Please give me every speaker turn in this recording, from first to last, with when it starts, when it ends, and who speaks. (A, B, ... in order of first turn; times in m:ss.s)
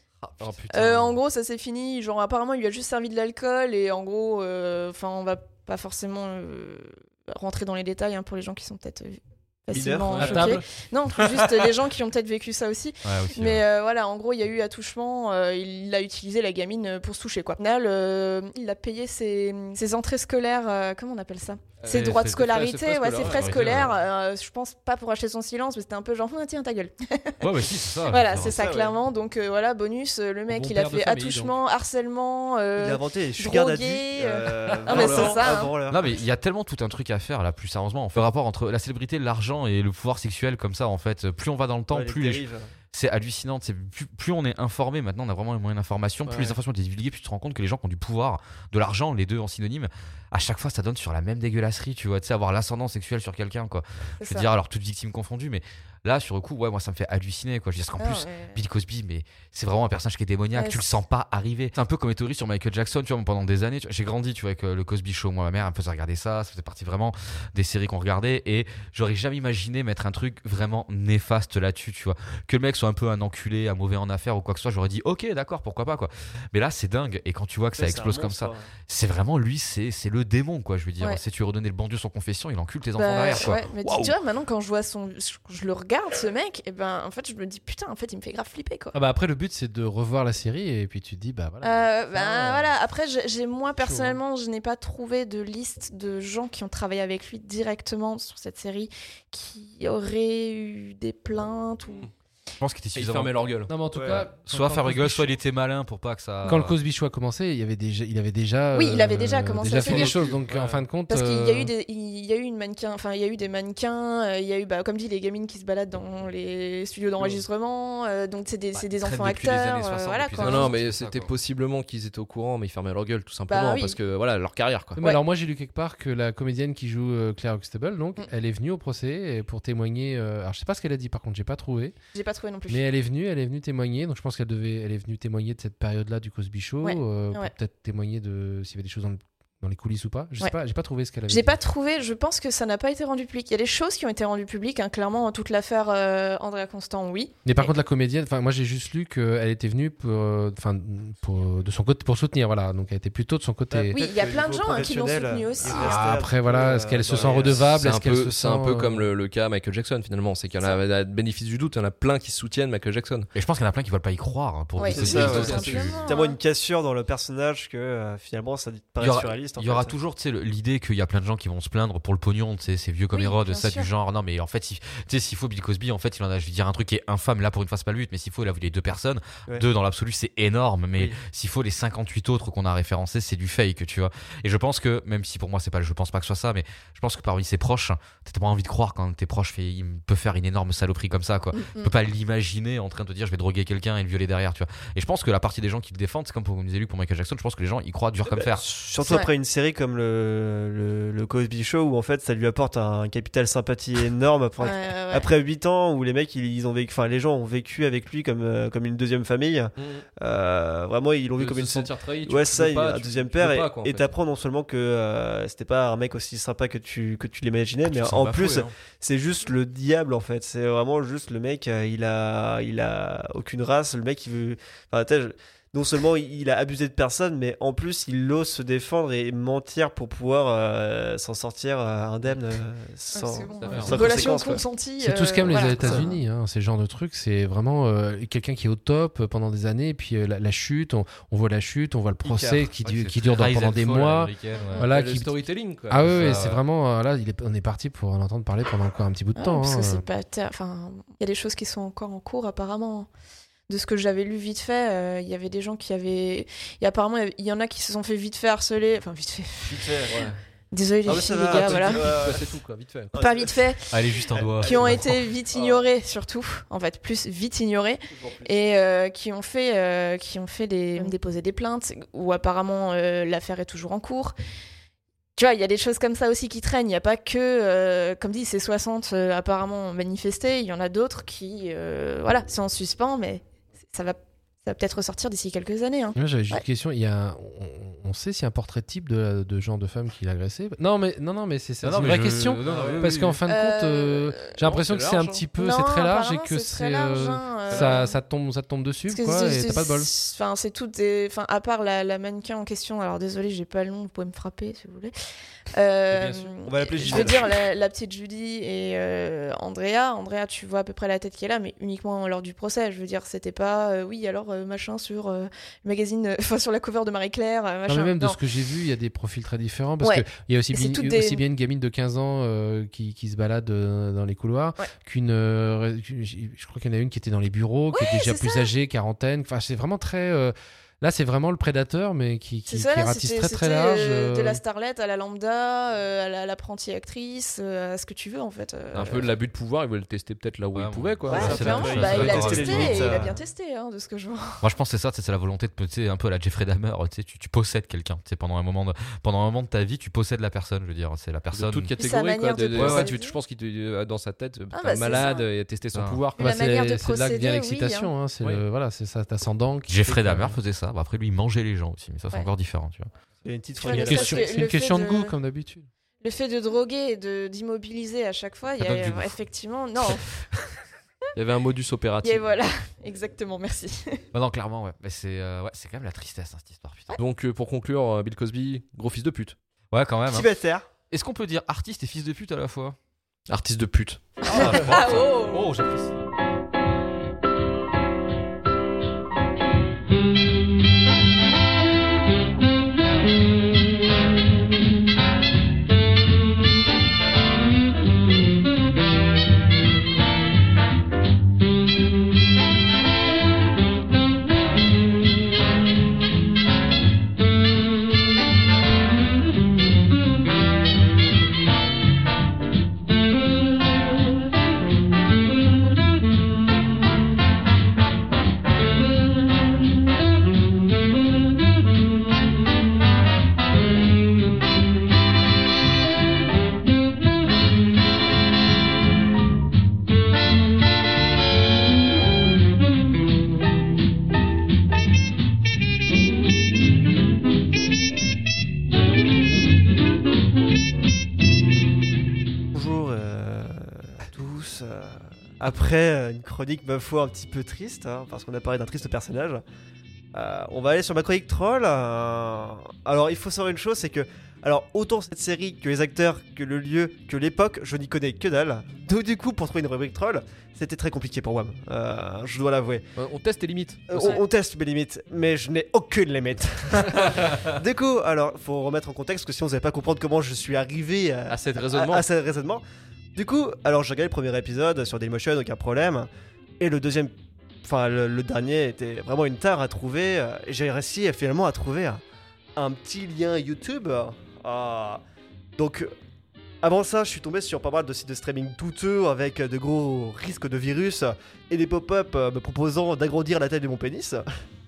0:00.2-0:01.1 A
0:00.4-0:00.9 B
0:00.7-0:35.8 C
0:09.7-0:10.4 D
0:10.1-0:10.6 B
0:10.2-0:10.6 E
0:13.0-0:13.6 A
0:21.8-0:24.0 B
0:21.9-0:22.5 A
0:23.2-0:23.9 A
0:27.4-0:28.7 A
0:28.3-0:29.0 D
0:30.5-0:31.6 E
0:32.8-0:36.2 D
0:34.9-1:24.1 A
0:41.9-0:42.7 D
0:46.2-0:46.6 B
0:54.2-0:54.5 C
0:58.0-0:58.6 C
1:00.6-1:00.9 C
1:17.8-1:18.7 D
1:23.0-1:28.9 C
1:28.9-1:32.8 E
1:31.6-1:42.1 C
1:33.8-1:34.2 E
1:42.6-1:43.3 A
1:42.9-1:43.7 B
1:43.7-1:45.3 E
1:43.9-1:44.3 D
1:44.1-1:46.7 A
1:46.4-1:51.7 E
1:48.7-1:50.2 C
1:49.8-1:50.9 B
1:51.1-2:00.7 C
1:57.2-1:57.4 B
1:58.7-2:01.3 A
2:00.4-2:05.0 B
2:03.5-2:04.0 C
2:05.0-2:11.9 E
2:12.1-2:12.9 C
2:12.7-2:21.6 E
2:16.8-2:17.5 C
2:21.3-2:27.7 C
2:27.4-2:34.0 E
2:33.7-2:37.7 D
2:33.9-2:36.2 C
2:35.7-2:39.1 E
2:37.8-2:43.3 B
2:43.3-2:46.0 A
2:44.8-2:46.4 C
2:44.9-2:50.0 D
2:45.0-2:46.0 B
2:49.0-3:18.7 A
2:53.1-2:53.9 C
3:11.5-3:11.9 C
3:18.2-3:54.6 D
3:19.0-3:19.3 C
3:24.6-3:25.3 C
3:29.8-3:30.0 B
3:31.4-3:34.1 B
3:37.9-3:38.7 B
3:53.1-3:56.2 C
3:53.6-3:54.0 B
3:55.0-4:05.3 E
4:02.2-4:02.7 D
4:02.8-4:04.9 A
4:04.5-4:04.9 C
4:04.8-4:06.4 B
4:05.9-4:10.0 E
4:06.0-4:06.6 A
4:09.4-4:13.1 C
4:13.7-4:20.0 C
4:19.6-4:20.2 D
4:20.1-4:20.4 B
4:20.7-4:22.2 C
4:21.0-4:22.5 D
4:21.4-4:23.2 B
4:23.1-4:25.8 D
4:23.2-4:24.1 C
4:23.9-4:25.1 A
4:24.6-4:34.3 C
4:28.1-4:28.7 D
4:35.4-4:46.6 C
4:46.1-5:00.1 E
4:51.8-4:53.4 A
4:52.6-4:53.1 B
4:53.5-4:54.6 C
4:54.6-4:55.4 B
4:55.5-4:58.2 C
4:57.7-4:58.0 B
4:59.1-5:05.1 C
5:05.7-5:18.4 C
5:06.1-5:06.5 B
5:06.6-5:07.5 D
5:07.0-5:07.3 B
5:17.9-5:34.6 E
5:20.0-5:21.4 C
5:27.9-5:28.7 C
5:32.7-5:39.3 C
5:38.9-5:42.9 B
5:40.7-5:43.2 A
5:41.3-5:44.6 C
5:41.5-5:43.4 D
5:44.6-5:51.9 A
5:51.5-5:56.4 B
5:52.0-5:53.4 C
5:52.6-5:53.1 A
5:54.7-5:55.5 C
5:55.9-5:56.2 A
5:56.4-5:58.1 C
5:56.4-6:00.6 E
5:59.9-6:03.1 A
6:03.4-6:04.6 D
6:03.8-6:05.3 C
6:03.9-6:05.9 E
6:06.2-6:10.3 C
6:08.8-6:09.3 A
6:11.3-6:12.5 B
6:12.2-6:14.2 C
6:14.3-6:17.2 A
6:17.2-6:19.6 B
6:19.9-6:20.5 A
6:20.3-6:20.9 D
6:21.1-6:23.0 A
6:23.5-6:25.0 B
6:24.4-6:25.7 C
6:24.4-6:26.1 A
7:22.7-7:29.6 D
7:30.3-7:43.0 D
7:43.2-7:44.4 B
7:44.1-7:52.8 D
7:51.5-7:52.2 B
7:53.3-7:56.3 D
7:56.8-7:57.3 D
7:57.8-8:02.2 D
8:02.8-8:05.2 D
8:05.8-8:06.1 D
8:06.8-8:14.5 D